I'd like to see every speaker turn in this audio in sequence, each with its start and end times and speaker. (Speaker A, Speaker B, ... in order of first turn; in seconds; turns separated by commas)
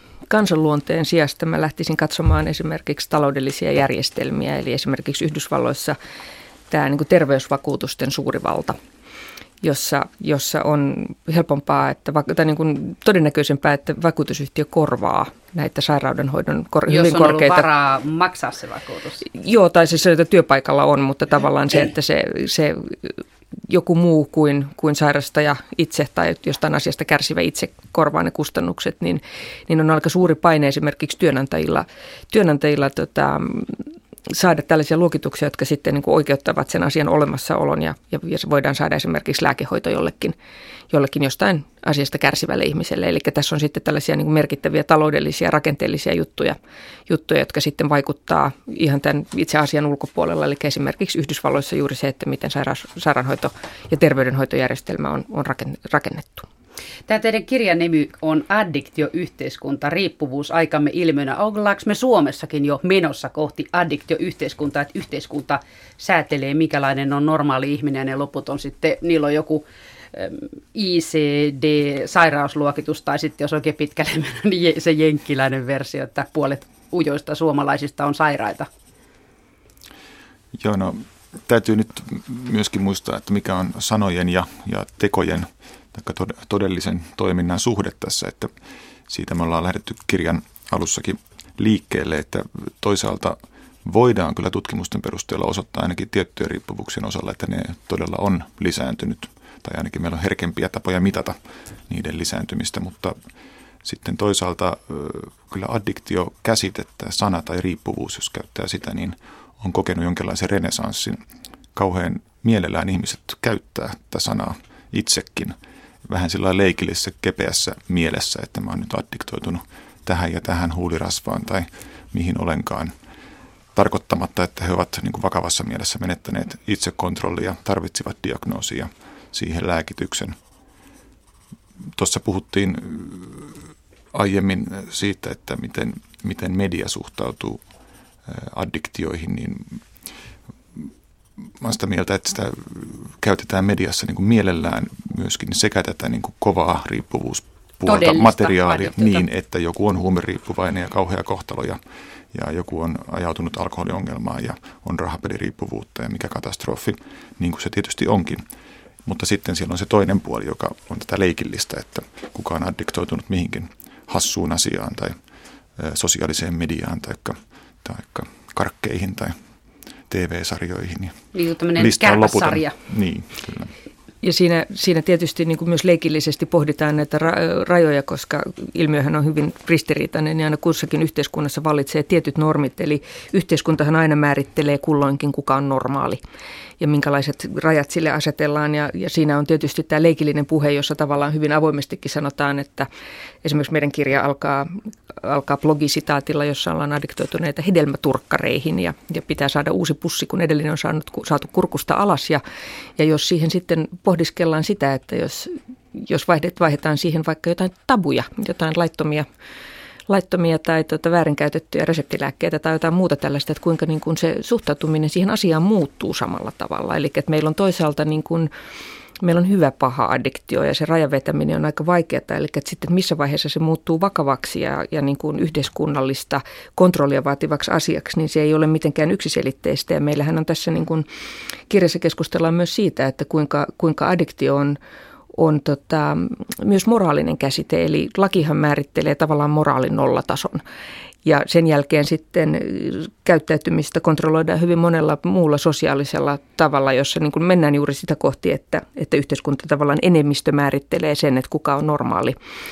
Speaker A: 0.3-6.0, Speaker A: 6.7-8.8, Speaker A: 9.6-17.7, Speaker B: 16.9-19.3, Speaker A: 19.3-23.2, Speaker A: 23.7-40.4, Speaker A: 40.9-56.5, Speaker B: 57.1-78.7, Speaker C: 80.5-88.5, Speaker C: 89.1-101.4, Speaker C: 101.9-103.2, Speaker C: 103.8-111.2, Speaker C: 111.8-122.9, Speaker C: 123.8-130.4, Speaker C: 132.0-133.6, Speaker C: 134.1-137.6, Speaker C: 138.3-139.8, Speaker C: 141.6-151.8, Speaker B: 147.8-149.2, Speaker C: 152.3-158.4, Speaker C: 159.1-165.2, Speaker C: 165.8-169.3, Speaker C: 170.1-171.2, Speaker B: 171.3-172.8, Speaker C: 171.8-173.7, Speaker A: 174.2-186.2, Speaker A: 186.8-192.9, Speaker A: 193.4-202.4, Speaker A: 203.0-209.3, Speaker A: 210.1-218.5, Speaker A: 219.2-231.1, Speaker A: 231.7-234.8, Speaker A: 235.3-240.6, Speaker A: 241.2-252.4